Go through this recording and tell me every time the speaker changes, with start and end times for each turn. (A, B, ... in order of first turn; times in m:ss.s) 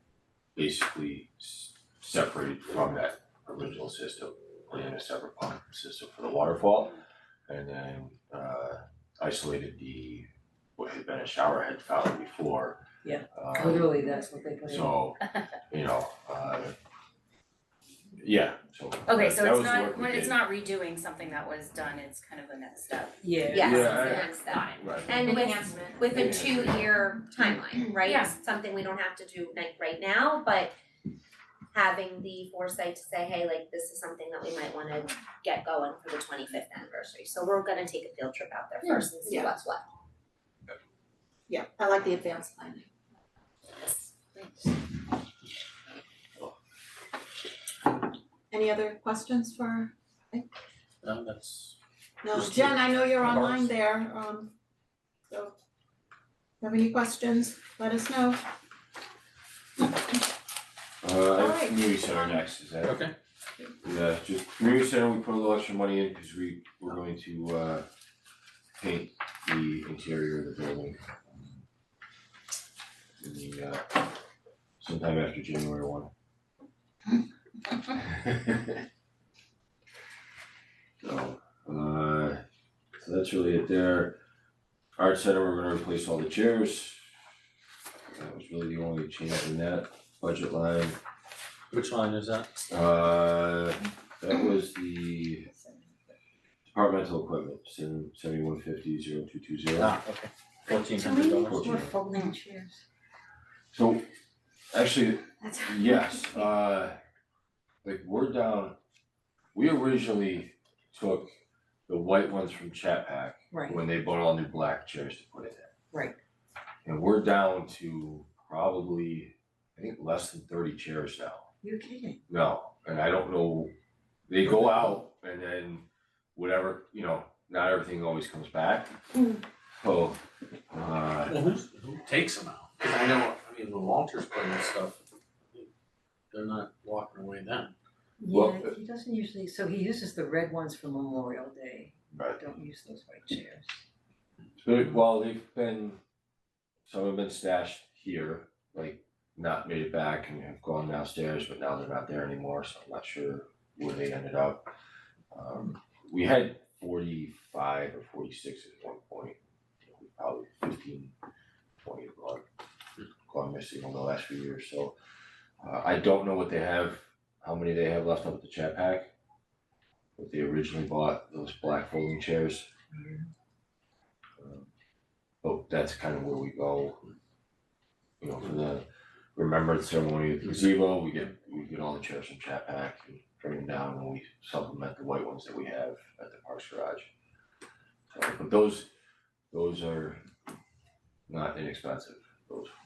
0:00.6-0:12.8 A
0:13.0-0:15.0 B
0:13.3-0:13.9 A
0:14.6-0:15.2 A
0:15.7-0:16.7 A
0:18.2-0:20.4 A
0:19.0-0:26.4 C
0:23.2-0:23.8 B
0:23.5-0:30.7 D
0:23.5-0:25.2 A
0:26.1-0:26.9 A
0:27.9-0:28.4 C
0:31.7-0:39.8 D
0:38.8-0:39.5 E
0:41.5-0:42.9 E
0:48.5-0:50.5 E
0:51.0-0:51.8 F
0:52.2-0:54.5 E
0:52.3-0:53.7 F
0:55.3-0:55.5 E
0:56.6-0:58.4 E
1:01.0-1:03.0 A
1:01.4-1:02.4 E
1:02.8-1:03.1 F
1:03.8-1:07.8 A
1:08.8-1:11.6 A
1:13.2-1:14.0 A
1:14.8-1:16.1 A
1:18.0-1:18.8 A
1:21.0-1:22.4 A
1:23.0-1:24.2 A
1:25.0-1:27.0 A
1:28.1-1:31.0 A
1:31.7-1:32.6 F
1:32.7-1:35.5 A
1:36.7-1:40.0 A
1:39.8-1:41.7 F
1:40.7-1:42.8 B
1:41.2-1:41.9 A
1:43.7-1:44.1 A
1:44.7-1:47.0 A
1:45.5-1:46.0 B
1:47.8-1:48.8 A
1:49.5-1:51.3 A
1:51.9-1:55.7 A
1:53.5-1:53.8 B
1:55.9-1:56.2 B
1:56.8-2:01.5 A
2:01.6-2:02.2 B
2:02.3-2:03.7 A
2:04.3-2:09.0 A
2:09.8-2:11.4 A
2:11.2-2:15.0 F
2:16.3-2:17.7 F
2:18.2-2:23.8 B
2:18.3-2:18.7 A
2:22.1-2:22.4 A
2:24.6-2:26.0 A
2:26.9-2:34.7 A
2:35.3-2:41.1 A
2:41.8-2:42.4 A
2:43.3-2:44.9 A
2:45.6-2:49.1 A
2:50.2-2:52.7 A
2:52.9-2:53.2 B
2:54.4-2:54.7 A
2:55.4-2:57.0 A
2:58.2-3:07.1 A
3:08.1-3:08.9 A
3:09.5-3:10.2 A
3:11.3-3:12.7 A